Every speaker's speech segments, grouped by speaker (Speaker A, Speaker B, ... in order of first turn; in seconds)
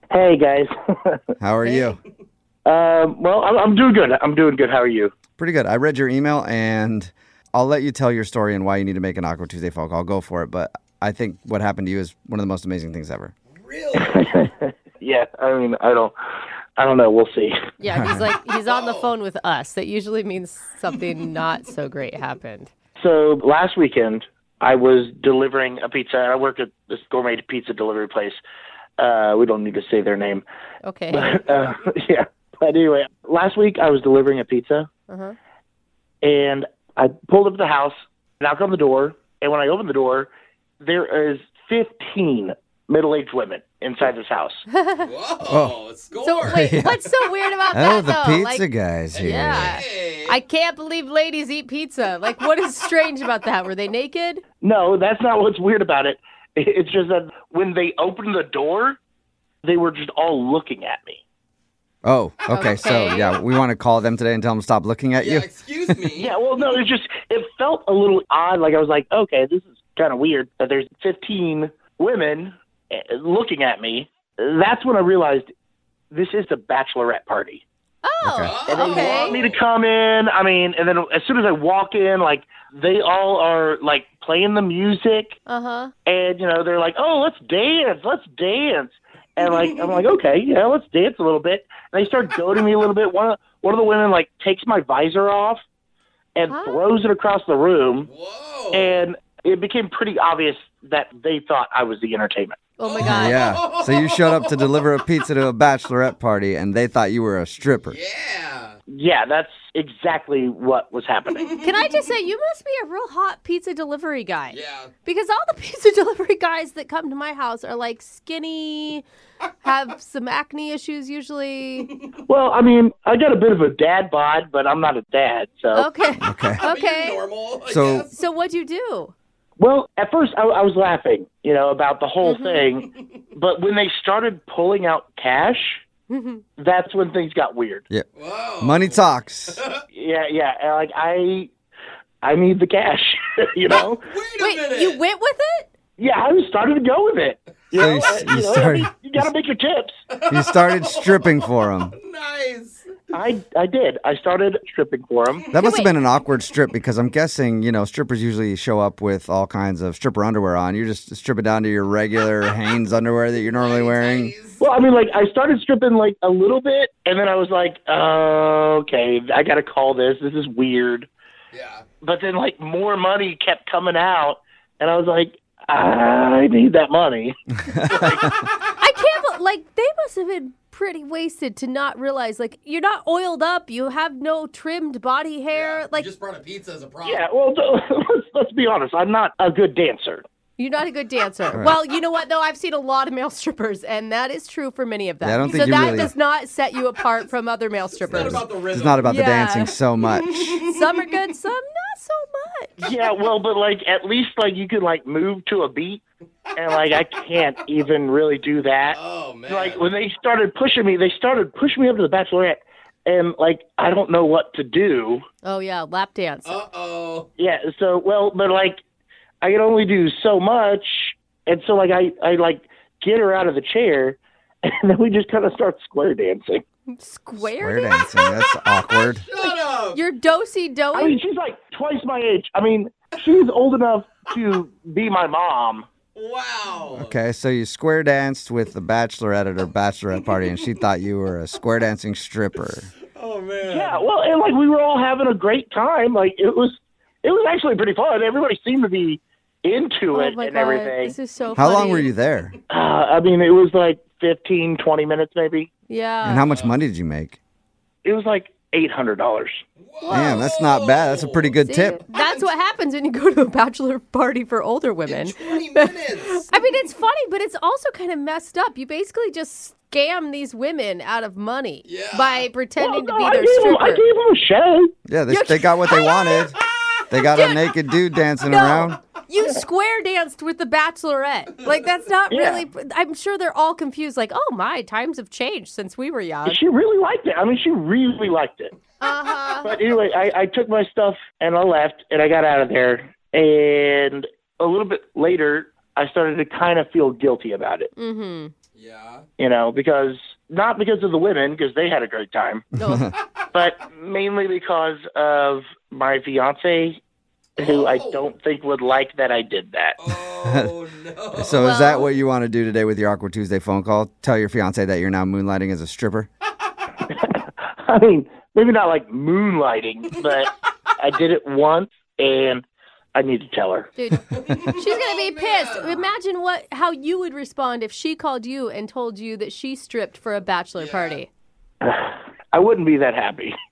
Speaker A: 0.1-1.2, 2.6-5.1, 13.9-16.1, 16.8-17.6, 23.0-28.4, 29.0-30.4, 31.1-34.9, 36.2-44.6, 54.6-59.0, 59.6-61.2, 66.1-75.5, 76.1-77.6, 78.7-85.4, 86.0-95.6, 96.3-98.1, 98.7-102.7, 108.9-111.5, 122.2-125.9, 129.6-135.8, 136.6-137.8, 139.9-141.5, 142.2-144.1, 146.0-149.9, 153.1-155.4, 164.6-171.1, 172.0-178.3, 187.0-190.2, 202.8-206.0, 206.6-215.2, 217.4-218.8, 219.4-226.6, 230.9-235.9, 243.6-251.2, 252.7-255.7, 258.0-259.6, 272.8-274.9, 282.3-282.6, 286.4-288.7, 289.6-297.9, 299.4-302.7, 303.5-307.0, 307.6-310.0, 317.1-323.9, 331.8-333.5
Speaker B: 1.4-2.0, 5.4-13.3, 17.9-18.2, 45.4-45.7, 46.4-47.0, 47.7-49.8, 62.0-66.1, 78.2-78.6, 103.0-108.0, 126.2-126.6, 127.7-128.1, 138.6-139.6, 147.7-148.9, 150.3-151.9, 155.5-164.3, 177.7-178.3, 195.2-196.1, 198.1-200.6, 227.4-229.2, 236.9-242.9, 251.6-252.5, 256.2-257.4, 260.1-262.0, 275.1-276.6, 277.1-279.0, 302.8-303.1, 310.4-310.7, 311.3-316.3
Speaker C: 1.6-1.9, 17.8-22.7, 30.8-31.4, 35.1-35.4, 44.7-45.1, 46.2-48.6, 49.2-54.4, 62.5-63.4, 78.0-79.5, 85.5-85.9, 96.5-96.8, 102.8-103.5, 111.6-119.0, 119.6-122.0, 125.7-127.3, 128.1-129.1, 132.2-132.7, 136.1-136.4, 144.4-145.7, 155.5-155.9, 178.8-186.1, 190.6-199.8, 200.6-202.8, 215.4-216.6, 226.9-228.4, 229.4-231.2, 250.1-252.1, 255.9-256.4, 260.0-260.5, 261.6-274.0, 275.3-276.5, 277.2-277.7, 278.4-286.6, 289.0-289.7, 298.0-298.5, 302.8-303.1, 311.6-312.1, 323.9-331.3
Speaker D: 13.5-14.2, 18.6-19.1, 45.0-46.7, 49.1-50.4, 65.2-66.2, 78.4-79.6, 98.1-99.0, 102.8-104.7, 107.9-108.8, 111.4-111.7, 114.5-114.9, 126.6-128.1, 138.2-139.0, 139.5-139.8, 143.7-145.0, 150.1-153.1, 163.5-164.6, 171.5-171.8, 185.5-187.2, 197.9-199.0, 200.3-200.8, 208.9-209.8, 216.4-217.3, 228.7-230.0, 236.1-237.1, 243.1-244.0, 256.5-256.8, 259.8-261.5, 265.0-266.7, 271.8-272.5, 276.6-277.0, 298.7-299.2, 307.6-308.2, 310.0-311.7, 324.3-326.0, 330.8-331.2